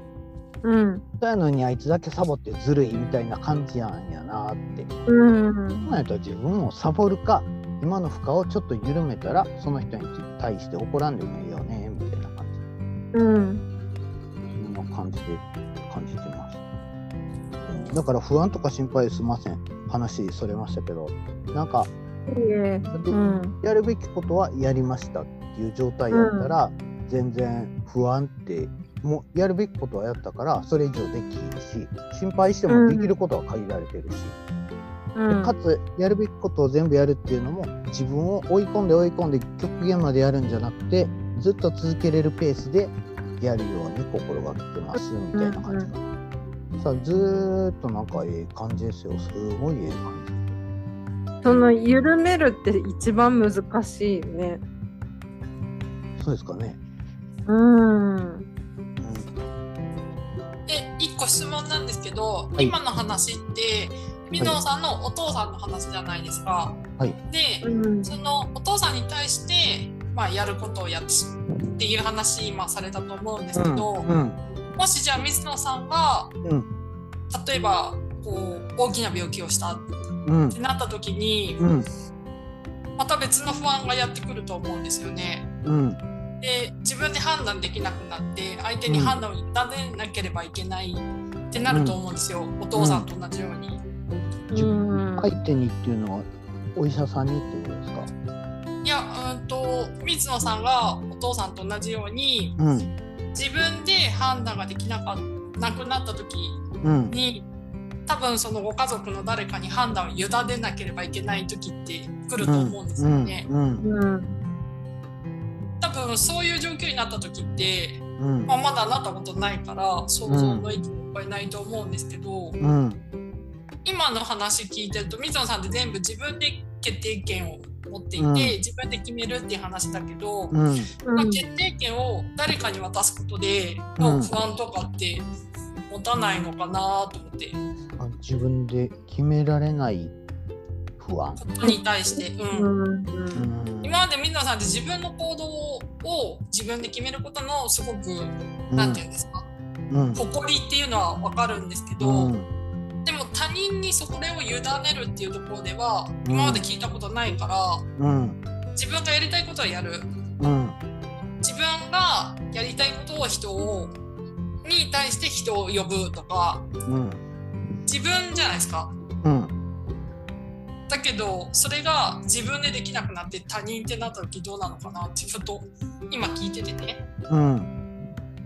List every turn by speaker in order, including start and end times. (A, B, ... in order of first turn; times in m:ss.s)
0:00.6-0:01.0 A
0:01.2-0:04.9 B
0:05.1-0:05.9 A
0:05.8-0:12.6 B
0:13.1-0:13.6 A
0:14.5-0:16.6 B
0:17.7-0:21.9 B
0:22.3-0:23.6 A
0:22.8-0:34.4 B
0:26.1-0:26.5 A
0:32.7-0:33.1 A
0:35.2-0:35.5 A
0:35.3-0:46.0 B
0:45.0-0:45.9 A
0:46.8-0:50.6 B
0:51.4-0:54.6 A
0:56.2-0:56.8 B
0:57.5-0:58.5 A
0:59.0-0:59.3 B
1:00.7-1:14.1 C
1:07.6-1:08.2 A
1:13.5-1:14.4 B
1:14.8-1:16.3 C
1:17.3-1:19.9 C
1:20.2-1:20.6 B
1:20.5-1:21.6 C
1:21.6-1:21.9 B
1:23.0-1:25.5 C
1:25.6-1:26.0 B
1:26.4-1:33.8 C
1:28.9-1:29.2 B
1:31.7-1:32.0 B
1:32.8-1:33.1 B
1:34.5-1:35.4 A
1:34.5-1:38.1 B
1:38.8-1:42.6 C
1:42.6-1:42.9 B
1:43.3-1:47.4 C
1:46.8-1:47.2 B
1:48.1-1:53.5 C
1:52.4-1:53.8 B
1:53.8-1:54.4 A
1:55.8-2:02.6 C
1:58.2-1:58.5 B
2:00.3-2:00.7 B
2:02.6-2:03.0 B
2:03.8-2:10.6 C
2:08.2-2:08.6 B
2:10.5-2:10.9 B
2:11.1-2:11.4 A
2:11.1-2:15.3 C
2:14.0-2:14.3 B
2:15.9-2:17.6 C
2:18.0-2:20.2 B
2:21.0-2:21.4 B
2:21.4-2:22.7 C
2:21.6-2:23.5 A
2:23.4-2:24.0 B
2:23.8-2:29.5 C
2:28.7-2:29.0 B
2:29.9-2:30.2 B
2:30.2-2:32.3 C
2:32.0-2:32.5 B
2:33.0-2:37.8 C
2:36.2-2:36.7 B
2:38.0-2:38.4 B
2:38.8-2:40.1 C
2:40.4-2:40.8 B
2:41.4-2:44.0 C
2:44.6-2:46.7 C
2:46.9-2:47.2 B
2:47.9-2:48.9 C
2:49.2-2:49.5 B
2:50.9-2:57.0 C
2:57.3-2:57.7 B